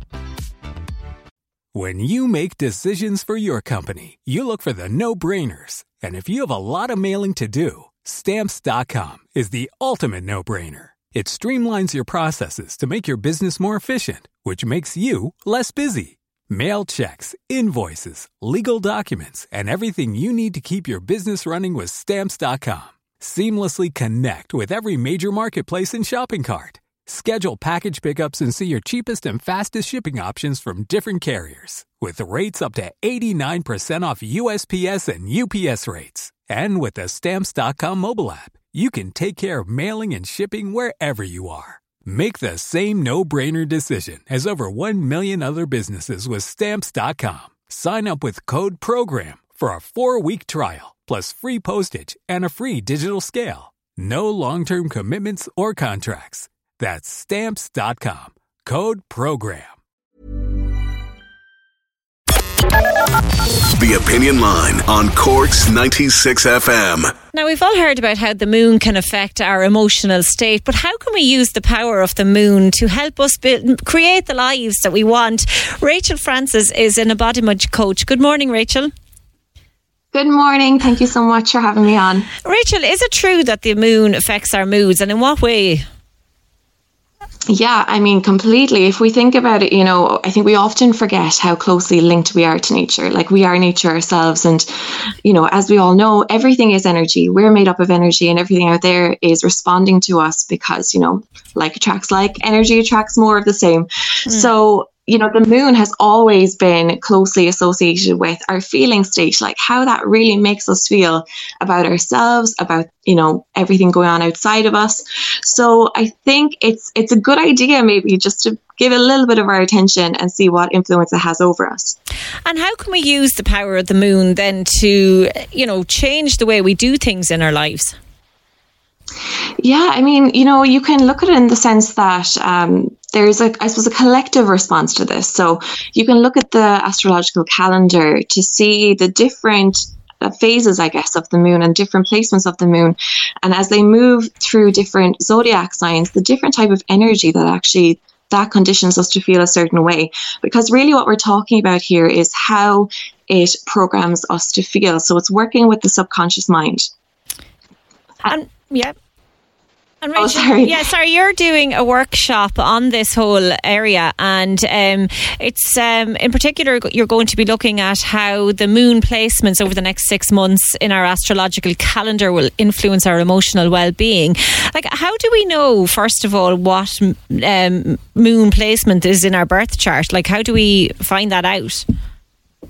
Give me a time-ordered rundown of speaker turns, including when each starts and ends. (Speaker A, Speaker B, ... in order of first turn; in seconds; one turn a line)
Speaker A: 1.7-59.8
Speaker B: 63.8-67.1
Speaker C: 67.3-78.9
Speaker D: 80.1-82.3
Speaker C: 82.4-85.8
Speaker D: 87.5-122.0
Speaker C: 122.5-128.0
Speaker D: 129.6-156.9
Speaker C: 158.2-158.9
Speaker C: 160.0-181.9
Speaker D: 160.2-160.8